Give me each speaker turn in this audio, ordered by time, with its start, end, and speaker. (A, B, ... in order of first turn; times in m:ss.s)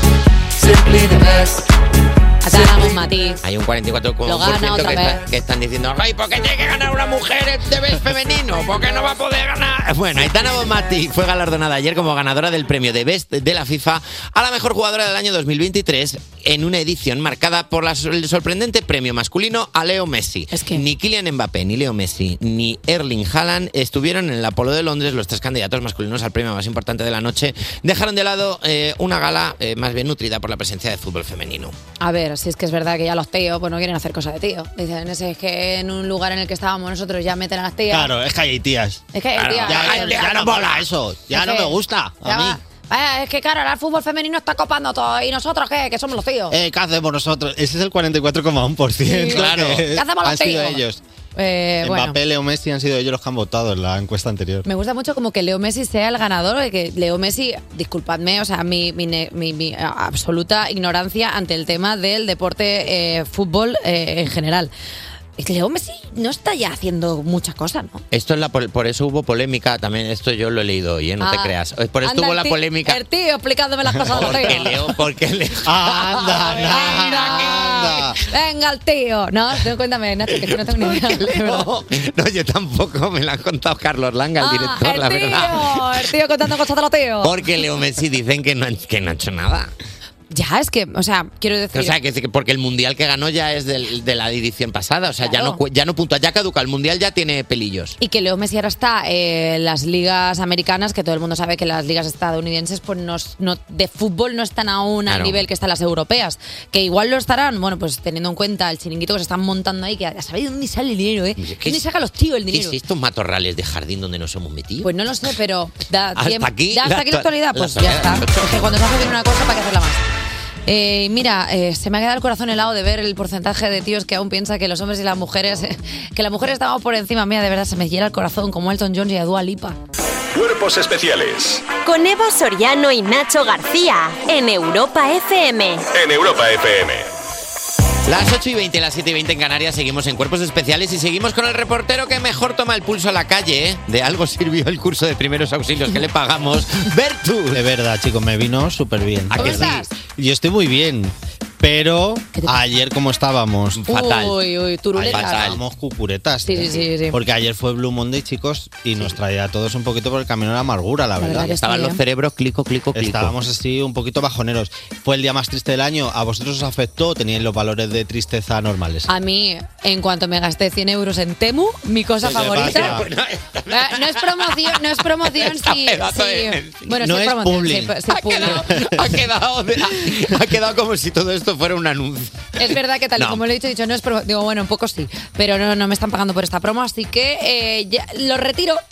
0:02.4-0:03.4 A
0:03.4-0:31.8 B
0:04.2-0:05.2 A
0:20.5-0:20.8 A
0:32.0-0:38.1 A
0:37.9-0:39.0 C
0:39.1-0:40.3 A
0:39.4-0:40.9 B
0:39.6-0:42.6 C
0:41.3-0:46.6 A
0:46.5-0:51.0 C
0:49.0-0:50.8 A
0:49.3-0:49.8 B
0:51.4-0:52.2 A
0:51.8-0:54.6 C
0:54.6-1:04.7 A
1:05.4-1:08.0 A
1:08.1-1:13.0 B
1:11.2-1:11.5 A
1:12.0-1:14.7 A
1:14.0-1:14.7 C
1:14.1-1:17.8 B
1:15.6-1:18.2 C
1:16.4-1:21.7 A
1:20.4-1:25.9 B
1:24.4-1:27.3 A
1:27.2-1:29.7 B
1:30.3-1:32.0 A
1:31.7-1:38.0 B
1:35.2-1:35.6 A
1:38.0-1:52.8 A
1:45.1-1:45.4 B
1:51.4-1:51.8 B
1:52.5-1:54.9 B
1:54.8-2:00.0 A
1:56.2-1:58.7 B
2:00.6-2:09.8 A
2:10.3-2:11.6 D
2:11.8-2:15.8 E
2:15.9-2:17.1 D
2:18.0-2:27.6 B
2:27.5-2:33.9 C
2:29.3-2:29.8 B
2:29.3-2:29.9 A
2:33.8-2:34.4 B
2:33.9-2:35.4 A
2:35.0-2:41.5 C
2:35.0-2:35.6 B
2:36.4-2:37.2 A
2:41.2-2:42.0 A
2:41.4-2:43.3 B
2:42.9-2:49.1 C
2:49.1-2:53.0 A
2:52.2-2:53.0 C
2:52.3-2:56.9 B
2:53.7-2:58.8 A
2:56.9-2:58.0 C
2:58.1-3:02.6 B
2:58.5-2:59.0 C
3:02.6-3:08.8 A
3:03.2-3:03.4 B